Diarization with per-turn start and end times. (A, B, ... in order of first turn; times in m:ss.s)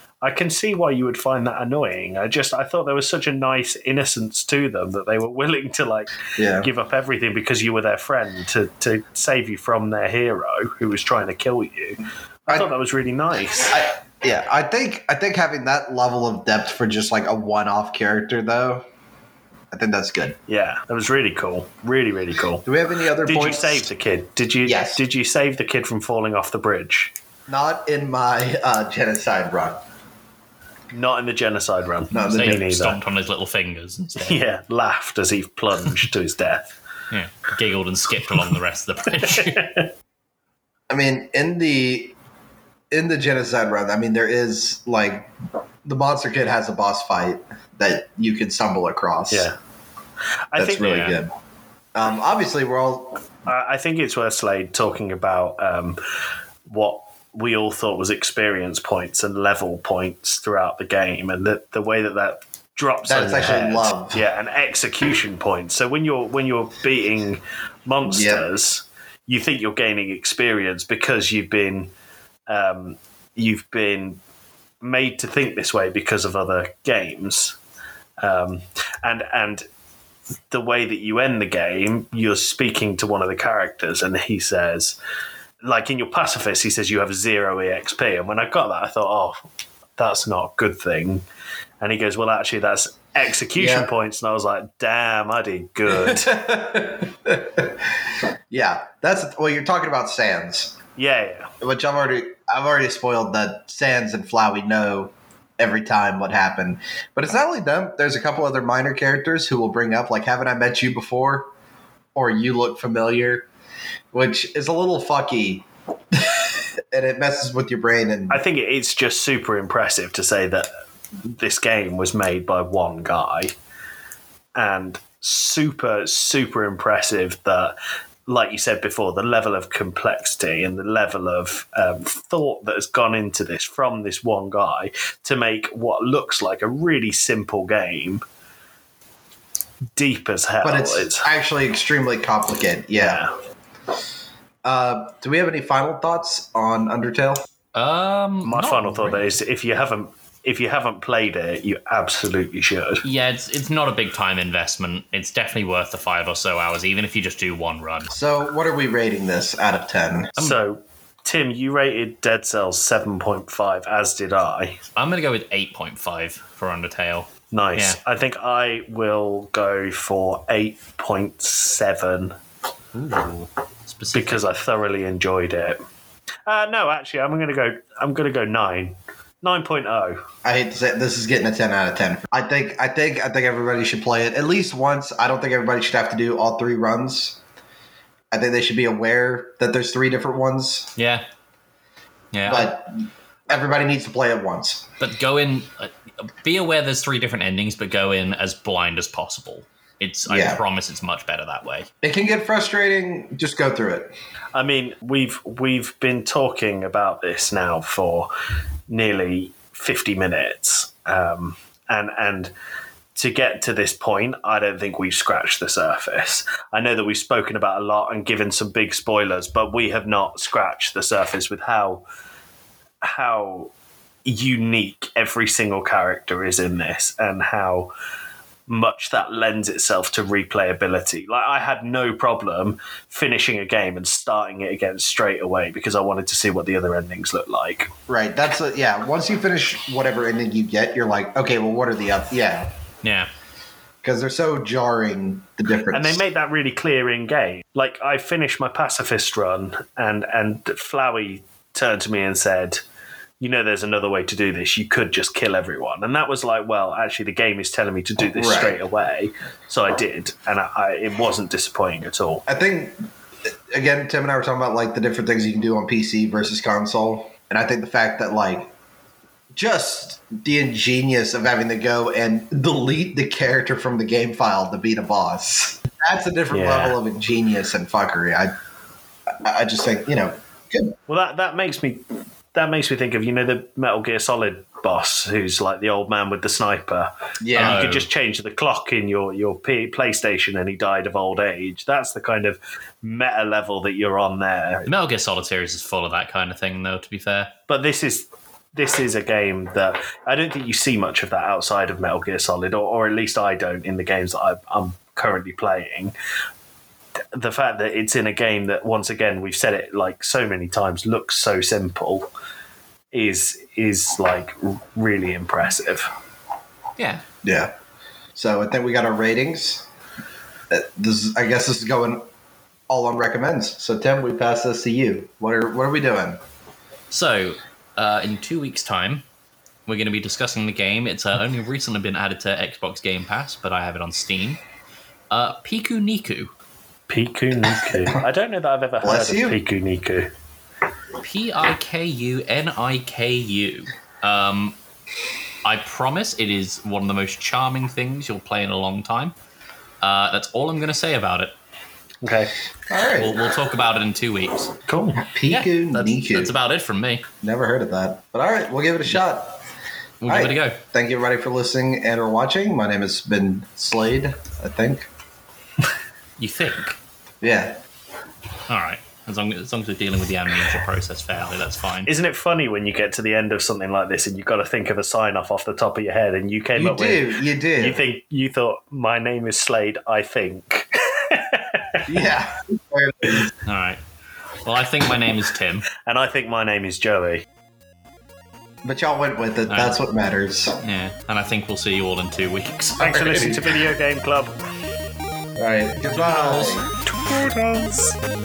0:00.2-0:13.8 A
0:06.4-0:06.7 B
0:13.7-0:18.8 B
0:19.7-0:20.4 B
0:20.5-0:22.7 A
0:22.6-0:23.8 B
0:23.2-0:27.1 A
0:24.6-0:25.0 B
0:27.5-0:29.8 B
0:30.9-0:33.0 A
0:32.1-0:32.6 B
0:32.2-0:34.4 C
0:34.2-0:36.8 A
0:37.1-0:39.7 C
0:39.2-0:39.9 A
0:40.9-0:42.1 B
0:42.9-0:45.3 B
0:45.8-0:49.5 B
0:49.3-0:49.6 A
0:50.5-0:51.2 A
0:50.6-0:51.3 B
0:51.9-0:53.2 B
0:53.4-0:56.0 A
0:56.6-1:11.9 A
1:03.0-1:04.2 B
1:08.1-1:08.4 B
1:12.5-1:14.2 A
1:14.8-1:17.6 A
1:18.2-1:19.6 A
1:20.5-1:25.0 A
1:25.6-1:31.2 A
1:31.8-1:36.3 A
1:33.6-1:33.9 B
1:35.9-1:40.8 B
1:41.0-1:41.5 A
1:41.6-1:51.5 B
1:52.1-1:53.5 B
1:54.1-1:58.4 B
1:58.3-2:00.7 A
2:01.2-2:03.5 A
2:04.6-2:07.7 A
2:08.3-2:18.2 A
2:20.0-2:21.3 A
2:20.6-2:23.2 B
2:23.0-2:23.3 A
2:24.6-2:27.4 B
2:27.7-2:29.2 C
2:28.4-2:33.0 A
2:33.0-2:38.1 C
2:38.1-2:40.3 B
2:40.4-2:44.8 A
2:45.0-2:48.0 C
2:47.5-2:52.4 A
2:52.9-2:54.4 C
2:54.1-2:55.8 A
2:56.5-3:00.2 A
3:00.4-3:07.4 B
3:08.3-3:10.9 B
3:11.0-3:11.2 C
3:12.3-3:12.7 C
3:12.5-3:14.9 B
3:15.0-3:21.9 C
3:20.3-3:20.6 B
3:22.0-3:24.1 B
3:24.5-3:28.3 A
3:28.9-3:32.5 A
3:33.1-3:42.0 A
3:43.0-3:43.7 A
3:44.2-3:47.9 A
3:48.7-3:57.9 A
3:58.1-4:02.7 B
4:03.0-4:03.3 C
4:04.0-4:06.2 B
4:05.9-4:12.8 A
4:13.4-4:22.4 A
4:18.3-4:18.8 B
4:22.5-4:23.0 B
4:23.7-4:28.7 B
4:29.5-4:38.5 B
4:36.5-4:37.0 A
4:39.3-4:40.9 B
4:41.1-4:54.9 A
4:47.4-4:47.8 B
4:47.5-4:48.1 C
4:54.8-4:57.5 C
4:57.7-5:06.1 A
5:07.3-5:12.3 A
5:13.1-5:16.1 A
5:17.0-5:17.2 C
5:17.4-5:17.7 B
5:18.4-5:19.9 B
5:20.7-5:22.2 B
5:22.9-5:26.4 B
5:27.1-5:29.2 C
5:29.9-5:34.6 C
5:35.3-5:36.5 C
5:37.1-5:40.3 A
5:39.0-5:39.6 B
5:41.2-5:44.8 C
5:45.6-5:49.3 C
5:50.0-5:51.5 C
5:52.2-5:52.5 A
5:52.9-5:53.5 B
5:53.2-5:54.8 C
5:54.9-5:55.2 A
5:55.2-5:56.5 B
5:55.5-5:57.2 C
5:57.4-5:59.6 B
6:00.2-6:00.8 C
6:00.3-6:05.1 B
6:06.4-6:07.0 C
6:07.4-6:07.8 B
6:08.7-6:12.1 C
6:12.0-6:22.1 A
6:16.8-6:18.0 B
6:22.1-6:23.5 B
6:23.6-6:24.0 C
6:24.6-6:25.8 C
6:26.0-6:27.4 A
6:28.8-6:30.8 B
6:29.7-6:30.0 C
6:30.8-6:33.5 C
6:33.0-6:34.6 A
6:33.2-6:33.5 B
6:35.6-6:36.9 B
6:36.1-6:37.5 C
6:37.3-6:38.1 A